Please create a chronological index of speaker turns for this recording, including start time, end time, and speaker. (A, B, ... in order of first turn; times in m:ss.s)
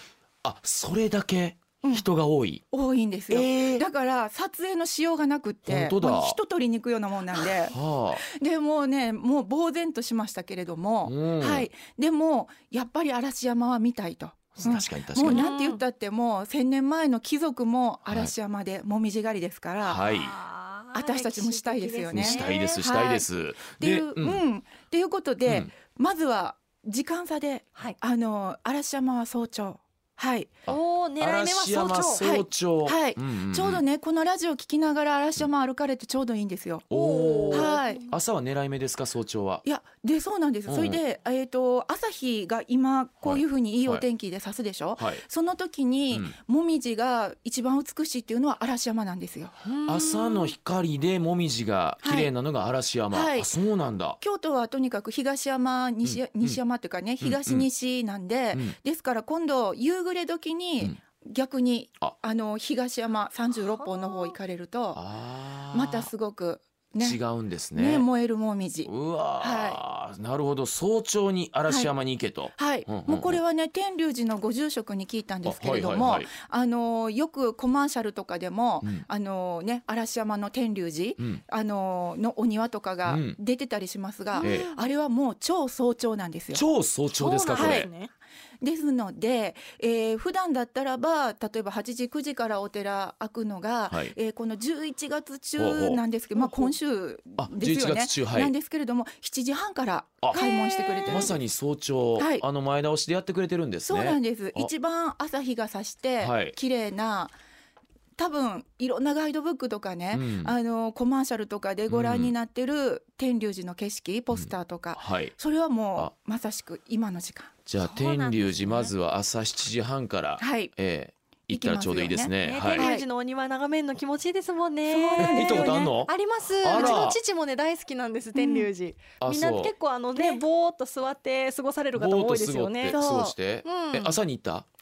0:00.4-0:02.6 A
0:02.7-0:20.0 B
0:03.3-0:03.8 A
0:05.6-0:06.4 A
0:07.3-0:08.2 A
0:11.0-0:11.7 A
0:14.6-0:15.4 A
0:15.2-0:15.8 C
0:18.1-0:18.3 A
0:19.8-0:20.4 A
0:20.1-0:22.8 C
0:20.9-0:23.2 B
0:22.1-0:24.4 A
0:23.8-0:30.5 B
0:25.4-0:25.7 A
0:30.7-0:33.8 A
0:30.7-0:32.2 C
0:32.2-0:36.8 B
0:36.9-0:39.6 A
0:36.9-0:38.1 C
0:37.5-0:38.0 B
0:39.6-0:49.6 B
0:40.7-0:41.0 A
0:43.2-0:44.0 A
0:45.0-0:45.2 A
0:49.6-0:50.5 C
0:49.8-0:54.2 A
0:52.0-0:52.3 B
0:53.1-0:53.5 B
0:54.2-1:05.0 B
0:56.0-0:56.6 A
0:57.2-0:57.7 A
1:04.1-1:04.3 C
1:04.9-1:06.1 A
1:05.7-1:07.2 B
1:07.0-1:08.0 A
1:07.7-1:09.8 B
1:08.8-1:13.4 A
1:12.6-1:26.6 B
1:15.4-1:16.3 A
1:23.0-1:23.4 A
1:24.3-1:24.8 C
1:24.4-1:24.7 A
1:26.5-1:27.9 A
1:27.1-1:28.1 C
1:27.5-1:27.9 B
1:28.6-1:41.4 B
1:33.9-1:34.2 A
1:35.6-1:36.0 A
1:37.4-1:38.5 A
1:40.3-1:41.3 C
1:41.1-1:44.7 A
1:42.2-1:42.4 B
1:43.9-1:47.3 B
1:46.2-1:46.6 A
1:48.2-1:57.5 B
1:50.1-1:50.5 A
1:51.9-1:52.3 A
1:54.3-1:55.3 A
1:57.7-2:02.9 A
1:57.8-1:58.9 C
2:00.4-2:00.7 B
2:01.5-2:03.0 B
2:02.4-2:13.0 C
2:04.9-2:05.9 B
2:05.2-2:07.2 A
2:06.8-2:07.0 B
2:08.3-2:08.7 B
2:09.2-2:09.7 A
2:12.0-2:14.7 A
2:12.9-2:13.3 B
2:13.6-2:14.2 C